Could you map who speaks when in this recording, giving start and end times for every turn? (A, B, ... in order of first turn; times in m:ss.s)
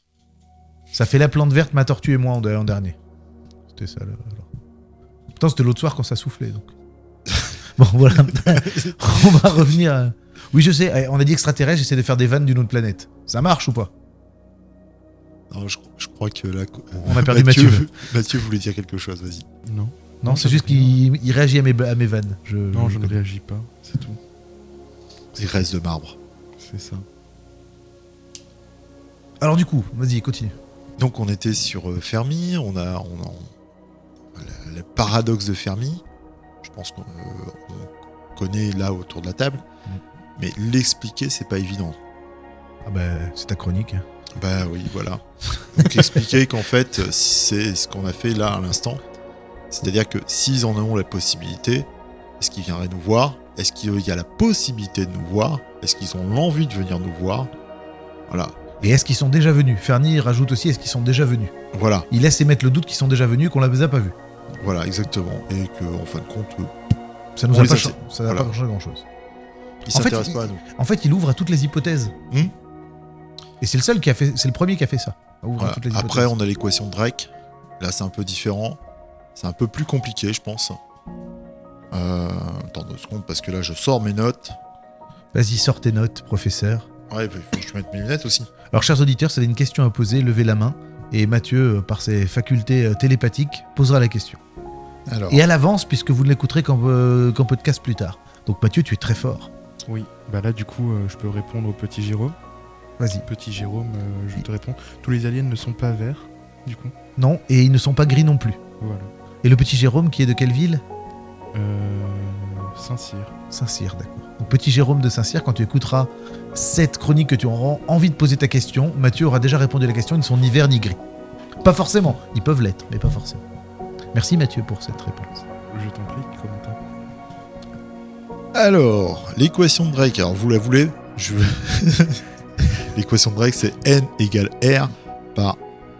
0:00.9-0:03.0 A
0:03.7-0:04.5 A
0:05.4-0:06.7 A
0:07.8-0:13.9 A
0:08.5-0:08.9 B
0:15.5-0:19.5 B
0:17.0-0:17.9 A
0:19.6-0:21.0 C
0:20.2-0:23.2 A
0:22.7-0:24.2 C
0:25.4-0:26.2 B
0:26.6-0:27.1 C
0:29.4-0:30.6 A
0:31.0-0:33.5 B
0:34.4-0:36.0 B
0:36.6-0:39.6 B
0:40.4-0:42.0 B
0:42.8-0:44.0 A
0:44.4-0:49.0 B
0:49.7-0:57.5 B
0:58.3-0:58.8 B
0:58.8-1:01.5 A
1:01.7-1:02.1 B
1:02.1-1:04.2 A
1:04.6-1:06.8 B
1:07.4-1:09.0 A
1:07.5-1:08.5 B
1:09.9-1:10.6 B
1:09.9-1:12.2 A
1:13.6-1:16.3 A
1:15.6-1:18.8 B
1:19.4-1:20.8 B
1:21.9-1:24.6 B
1:25.3-1:26.9 A
1:27.1-1:28.5 B
1:28.7-1:34.4 A
1:35.1-1:35.4 B
1:35.3-1:39.5 A
1:39.9-1:42.4 C
1:43.0-1:43.3 A
1:43.3-1:46.9 C
1:47.2-1:48.6 A
1:48.8-1:49.1 C
1:49.4-1:50.8 A
1:51.5-1:53.3 C
1:53.5-2:01.0 A
2:01.6-2:03.4 A
2:04.1-2:05.4 A
2:05.7-2:06.8 C
2:08.5-2:15.6 B